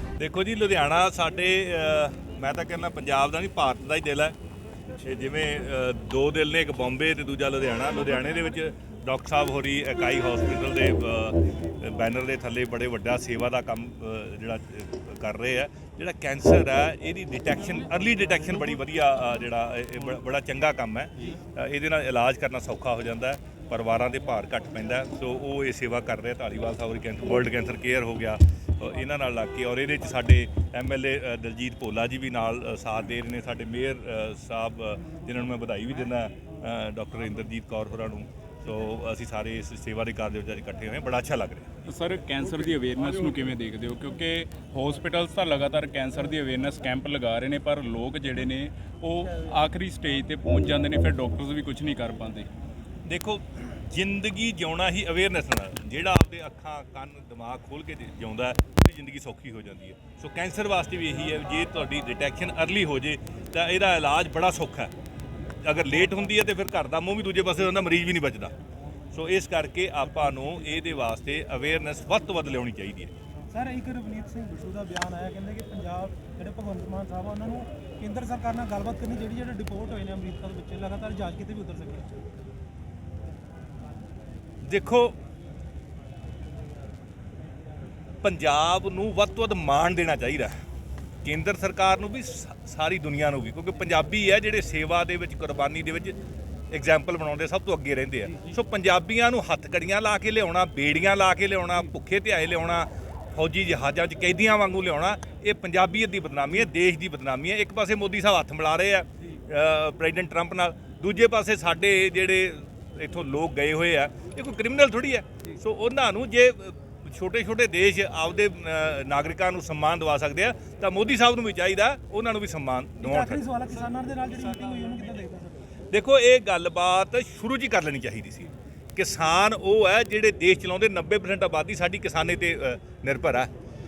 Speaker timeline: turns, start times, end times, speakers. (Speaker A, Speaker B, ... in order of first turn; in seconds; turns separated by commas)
Speaker A: 0.2-4.3, Speaker A: 5.0-41.7, Speaker B: 41.9-52.5, Speaker A: 53.0-64.9, Speaker A: 65.6-68.5, Speaker A: 69.1-73.1, Speaker C: 73.5-81.9, Speaker A: 84.6-85.2, Speaker A: 88.2-90.6, Speaker A: 91.2-96.1, Speaker A: 96.7-123.4, Speaker C: 123.0-125.6, Speaker A: 125.9-133.5